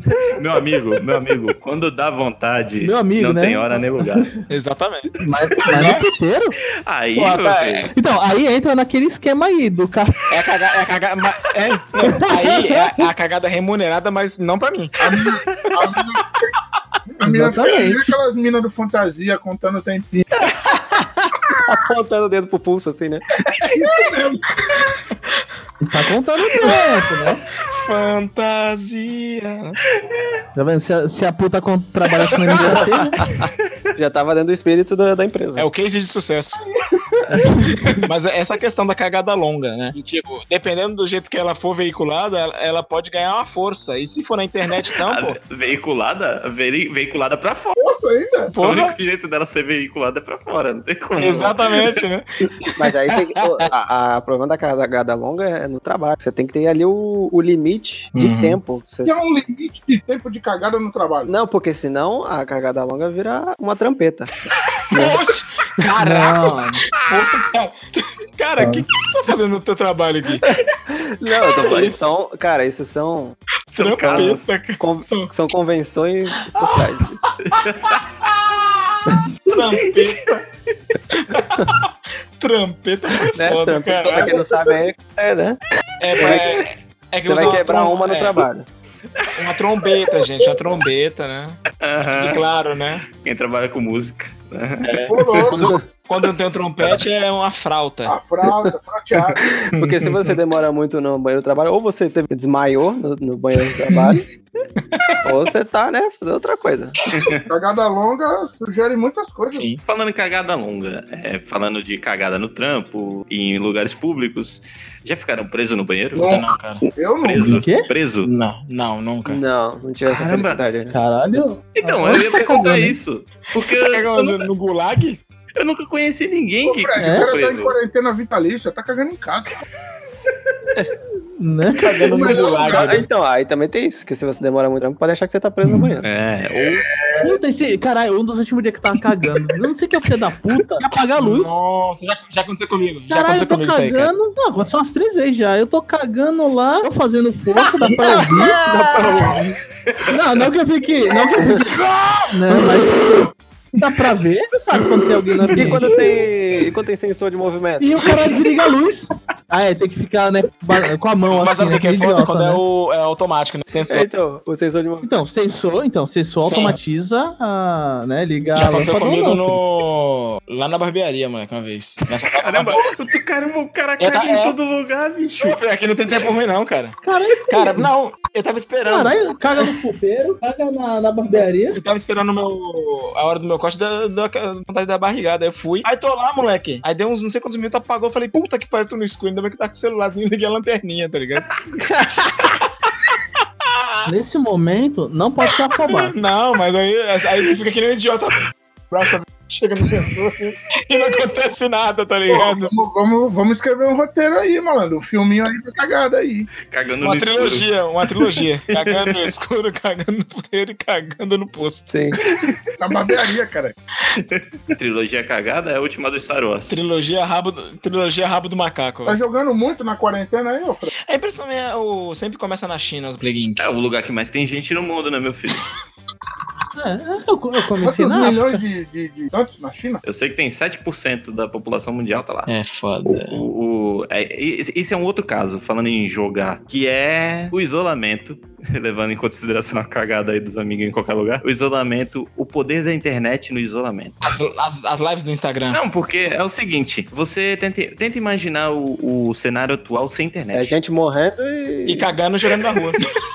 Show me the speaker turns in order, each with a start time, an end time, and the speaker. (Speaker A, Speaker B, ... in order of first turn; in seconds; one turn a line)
Speaker A: 0.3-4.3
Speaker B: 2.8-3.6
Speaker C: 4.5-5.1
Speaker B: 5.2-6.6
Speaker C: 5.7-6.1
Speaker A: 6.9-7.9
Speaker C: 7.2-7.9
Speaker B: 8.0-10.2
Speaker C: 10.3-15.0
Speaker B: 12.0-12.7
Speaker D: 15.0-16.4
Speaker A: 15.1-15.7
Speaker D: 17.2-20.3
Speaker B: 17.2-18.1
Speaker E: 20.4-23.3
Speaker D: 23.4-24.4
Speaker B: 25.8-27.4
Speaker C: 27.7-29.8
Speaker B: 30.6-33.1
Speaker E: 32.5-35.7
Speaker C: 35.6-36.6
Speaker B: 37.4-37.7
Speaker C: 38.0-45.4
Speaker A: 45.0-47.8
Speaker D: 47.8-48.5
Speaker C: 48.5-49.0
Speaker A: 48.6-52.0
Speaker C: 51.2-53.0
Speaker E: 52.7-59.1
Speaker C: 58.2-58.6
Speaker D: 59.0-61.3
Speaker E: 61.3-64.3
Speaker C: 64.9-70.5
Speaker E: 64.9-65.2
Speaker B: 66.0-66.8
Speaker B: 68.6-68.8
Speaker E: 70.5-73.4
Speaker C: 71.5-72.1
Speaker C: 73.7-75.3
Speaker A: 73.7-74.6
Speaker E: 74.1-77.3
Speaker C: 76.6-76.8
Speaker A: 77.4-78.0
Speaker C: 78.2-80.4
Speaker A: 79.8-80.3
Speaker C: 81.1-84.4
Speaker E: 83.3-85.6
Speaker C: 86.0-88.5
Speaker E: 86.2-86.6
Speaker E: 87.2-88.7
Speaker A: 89.2-89.9
Speaker C: 89.3-93.0
Speaker A: 91.8-92.4
Speaker A: 93.2-95.0
Speaker C: 94.8-98.1
Speaker D: 95.1-95.8
Speaker D: 98.1-99.4
Speaker E: 99.4-104.2
Speaker C: 99.7-100.4
Speaker C: 103.9-104.2
Speaker C: 104.9-105.2
Speaker E: 105.2-107.0
Speaker A: 107.1-107.4
Speaker D: 107.5-109.7
Speaker C: 109.5-109.8
Speaker A: 109.8-116.5
Speaker C: 116.2-116.8
Speaker D: 116.2-117.6
Speaker A: 117.2-118.3
Speaker B: 117.4-117.9
Speaker C: 118.2-119.4
Speaker E: 119.3-121.0
Speaker A: 120.1-120.6
Speaker B: 120.9-123.0
Speaker A: 121.8-124.5
Speaker C: 123.6-125.2
Speaker A: 125.6-127.8
Speaker D: 126.6-129.6
Speaker B: 127.0-127.3
Speaker B: 131.4-131.9
Speaker C: 131.8-133.1
Speaker D: 132.0-133.0
Speaker E: 132.6-136.1
Speaker A: 136.0-136.9
Speaker D: 136.6-137.4
Speaker B: 137.2-141.6
Speaker C: 141.2-144.1
Speaker B: 143.1-149.5
Speaker A: 148.0-150.1
Speaker B: 150.1-155.9
Speaker C: 151.8-153.2
Speaker E: 155.4-158.1
Speaker B: 157.8-162.6
Speaker C: 161.3-164.1
Speaker E: 163.9-165.1
Speaker B: 165.0-169.6
Speaker C: 166.4-166.8
Speaker C: 168.6-172.9
Speaker A: 172.1-175.6
Speaker C: 174.0-174.6
Speaker C: 175.4-177.0
Speaker B: 177.0-177.9
Speaker C: 177.5-179.7
Speaker B: 178.9-181.8
Speaker C: 181.7-191.5
Speaker E: 191.8-192.5
Speaker C: 192.4-192.7
Speaker C: 193.6-194.1
Speaker B: 194.1-196.1
Speaker C: 195.9-198.4
Speaker C: 198.9-202.7
Speaker D: 202.3-206.5
Speaker A: 206.7-209.3
Speaker C: 207.0-211.9
Speaker E: 211.9-212.2
Speaker D: 212.8-213.8
Speaker A: 214.1-216.8
Speaker C: 216.7-219.2
Speaker D: 219.1-220.9
Speaker C: 221.0-223.7
Speaker A: 223.6-225.7
Speaker B: 226.8-228.6
Speaker D: 227.8-230.0
Speaker A: 230.1-232.5
Speaker C: 232.5-233.4
Speaker A: 233.1-244.3
Speaker C: 244.2-245.8
Speaker A: 245.7-250.8
Speaker E: 250.5-252.1
Speaker C: 251.9-253.0